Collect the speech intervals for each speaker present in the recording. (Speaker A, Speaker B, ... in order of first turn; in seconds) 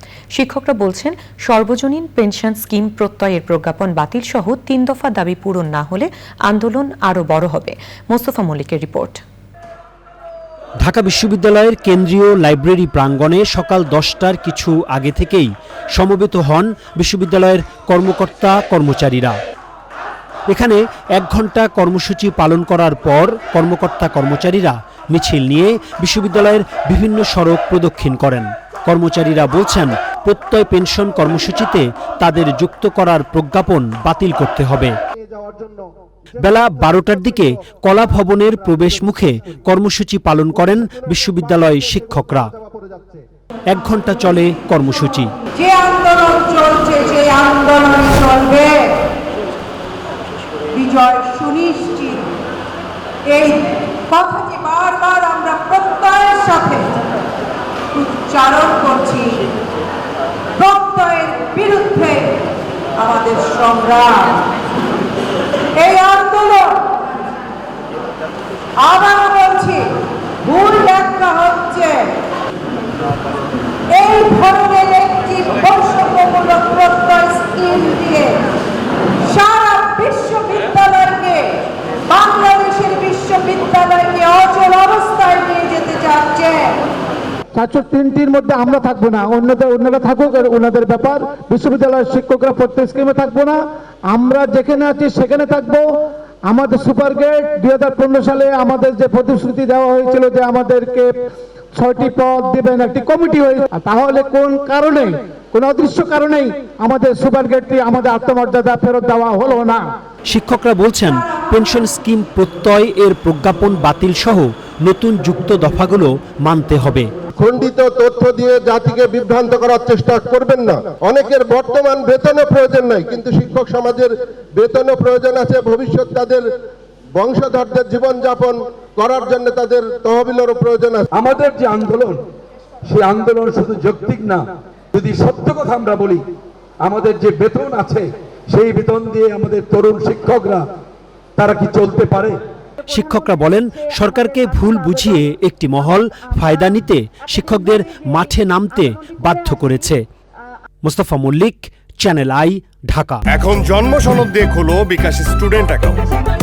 Speaker A: 0.3-9.2
Speaker B: 10.8-19.4, 20.5-35.0, 36.4-42.5, 43.7-45.3, 110.3-117.1, 142.9-150.1, 150.8-153.2
Speaker C: 45.5-48.8, 50.7-52.3, 53.3-56.9, 57.9-59.4, 60.6-62.4, 63.0-64.4, 65.8-66.9, 68.8-69.9, 70.5-72.2, 73.9-78.4, 79.3-86.8
Speaker D: 87.5-93.6, 94.1-95.9, 96.5-101.1, 101.8-109.8
Speaker E: 117.4-126.5, 127.2-131.1
Speaker F: 131.1-132.2, 132.9-136.2, 136.8-140.7, 141.4-142.3
Speaker G: 153.3-156.1